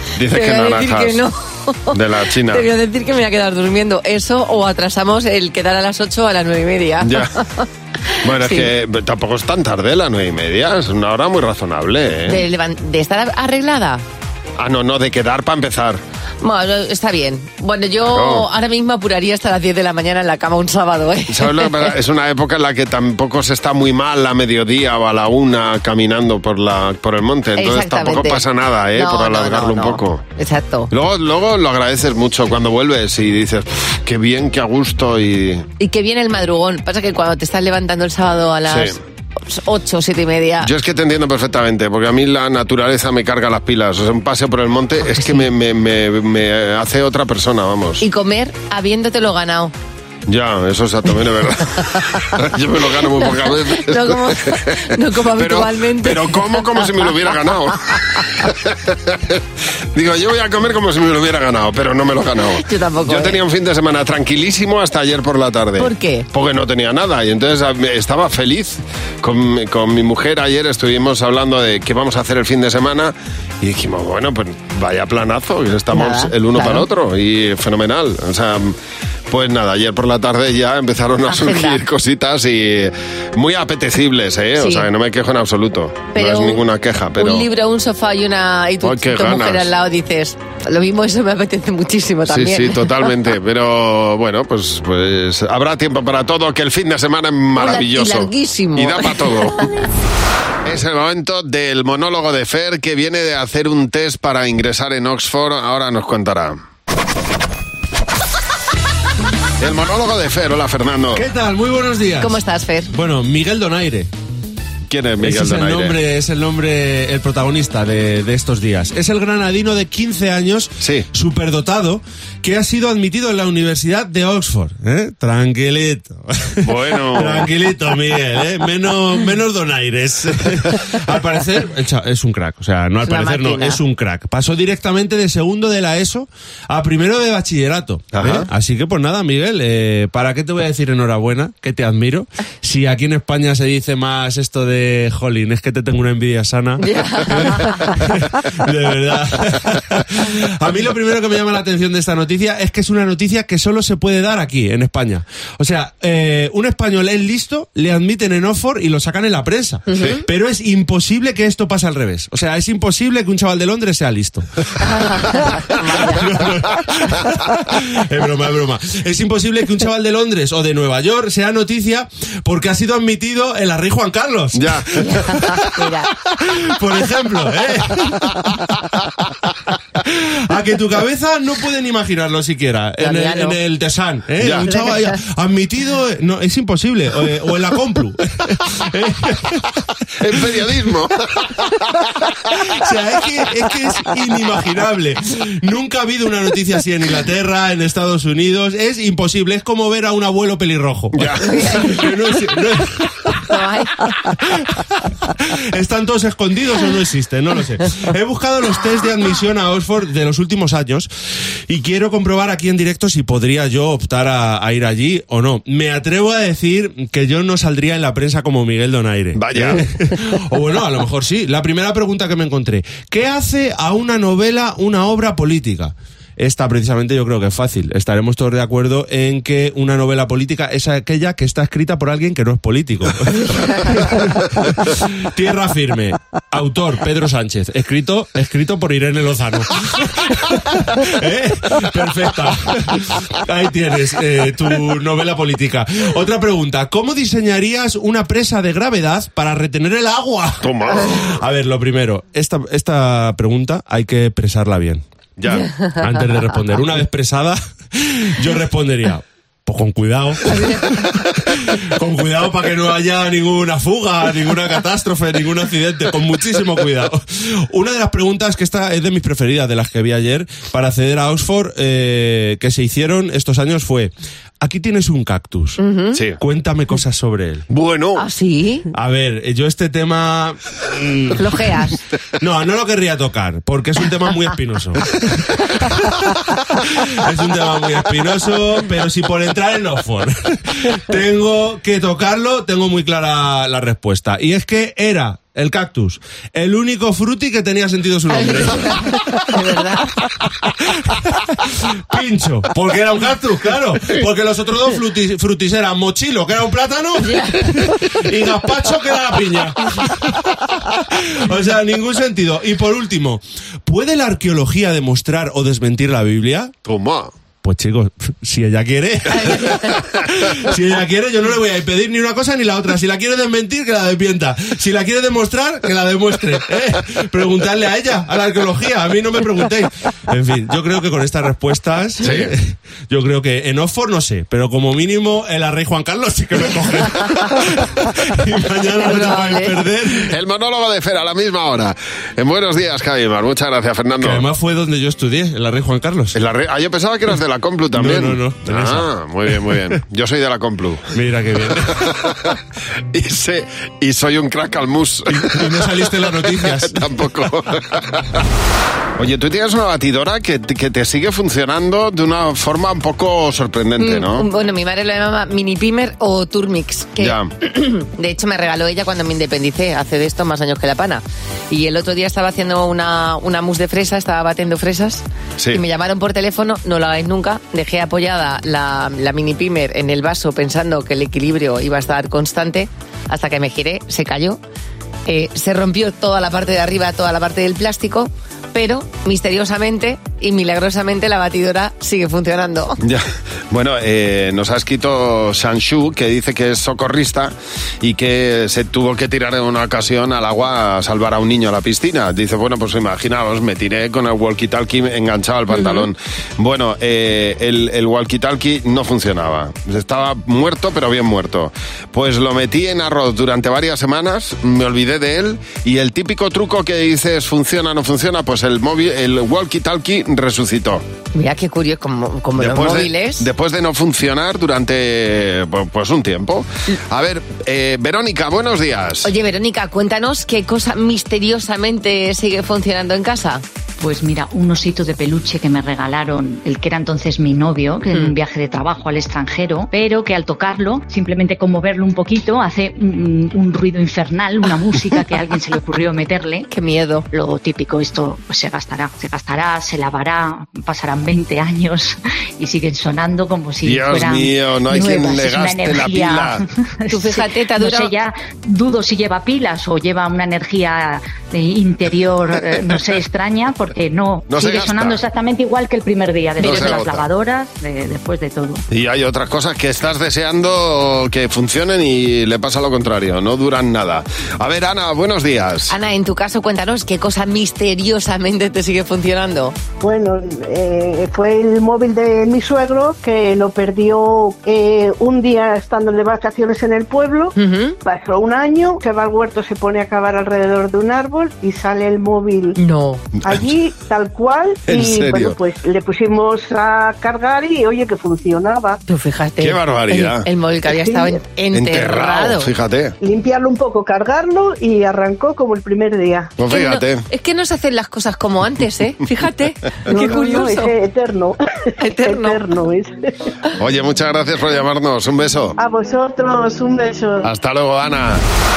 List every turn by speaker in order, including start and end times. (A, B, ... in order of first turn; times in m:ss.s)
0:00.2-0:01.2 A
0:00.3-0:08.7 B
0:01.9-0:02.7 A
0:07.0-0:07.3 A
0:08.2-0:12.4 A
0:12.3-0:14.0 B
0:14.6-0:16.0 A
0:16.4-0:21.8 B
0:18.0-0:18.5 A
0:21.3-0:30.2 A
0:27.6-0:28.4 B
0:28.9-0:30.9 B
0:30.9-0:35.6 A
0:35.8-0:40.7 B
0:38.7-0:39.0 A
0:40.6-0:48.0 A
0:45.1-0:45.5 B
0:48.0-0:49.7 B
0:50.3-0:54.7 A
0:53.2-0:57.4 B
0:55.4-0:59.4 A
0:57.9-0:58.5 B
0:59.9-1:18.8 A
1:02.6-1:03.4 B
1:05.8-1:06.3 B
1:15.9-1:16.9 B
1:19.3-1:27.5 A
1:21.3-1:21.8 B
1:24.6-1:24.9 B
1:26.1-1:26.6 B
1:27.2-1:33.0 B
1:28.8-1:29.7 A
1:32.3-1:39.6 A
1:37.6-1:39.6 B
1:40.6-1:46.6 A
1:49.6-1:51.2 A
1:51.1-1:52.4 C
1:52.2-1:52.9 B
1:52.9-1:54.1 C
1:54.9-1:56.0 A
1:55.2-2:44.4 C
2:00.8-2:01.0 A
2:06.6-2:07.5 A
2:13.0-2:13.8 B
2:18.2-2:18.5 A
2:26.8-2:27.8 B
2:39.9-2:40.2 B
2:44.9-2:46.2 B
2:45.9-2:58.3 C
2:54.6-2:55.0 A
2:55.0-2:56.1 B
3:00.0-3:09.7 C
3:03.0-3:03.6 B
3:04.4-3:04.7 A
3:04.5-3:05.2 B
3:10.2-3:11.8 A
3:12.6-3:23.3 C
3:21.2-3:21.4 A
3:21.4-3:22.1 B
3:23.4-3:23.9 B
3:24.4-3:31.1 C
3:31.7-4:15.0 C
3:39.4-3:39.8 A
4:10.6-4:11.4 A
4:15.4-4:15.7 A
4:16.0-4:35.8 C
4:20.5-4:21.0 B
4:35.8-4:36.2 B
4:36.1-4:36.4 A
4:36.4-4:37.6 C
4:37.7-4:38.2 A
4:38.2-4:38.9 B
4:38.9-4:41.4 C
4:41.4-4:42.0 B
4:42.4-4:46.0 C
4:46.8-4:59.5 C
4:58.3-5:00.1 B
5:01.1-5:01.4 C
5:02.1-5:16.7 C
5:07.2-5:07.7 B
5:16.8-5:17.3 A
5:17.6-5:40.3 C
5:19.3-5:20.0 B
5:32.2-5:32.5 A
5:39.0-5:39.8 B
5:40.3-5:44.4 A
5:44.2-5:46.4 C
5:46.3-5:51.1 A
5:47.9-5:49.1 C
5:49.7-5:49.9 C
5:51.1-5:52.0 C
5:52.0-5:52.6 A
5:53.1-5:58.5 A
5:55.3-5:57.0 C
5:59.2-6:04.4 A
6:04.0-6:24.6 B
6:07.2-6:07.5 A
6:25.3-6:33.0 B
6:33.0-7:01.0 A
6:45.7-6:46.0 B
7:01.3-7:03.5 B
7:02.6-7:09.3 A
7:09.2-7:13.6 B
7:14.0-7:26.6 D
7:26.7-7:27.2 B
7:27.3-7:48.8 D
7:33.8-7:36.6 A
7:37.1-7:38.1 B
7:44.5-7:45.2 A
7:46.6-7:47.2 A
7:48.9-7:55.9 A
7:55.9-7:59.7 B
8:00.0-8:12.8 E
8:07.6-8:08.0 B
8:12.8-8:13.2 B
8:13.4-8:19.0 E
8:14.9-8:15.6 A
8:19.1-8:22.7 B
8:19.6-8:20.4 A
8:20.9-8:21.4 E
8:21.7-8:23.2 A
8:23.2-8:26.5 E
8:26.6-8:27.2 A
8:26.7-8:30.9 B
8:30.1-8:31.6 E
8:32.0-8:32.6 B
8:32.2-8:33.1 E
8:33.8-8:35.8 A
8:35.8-8:37.5 E
8:37.4-8:38.4 A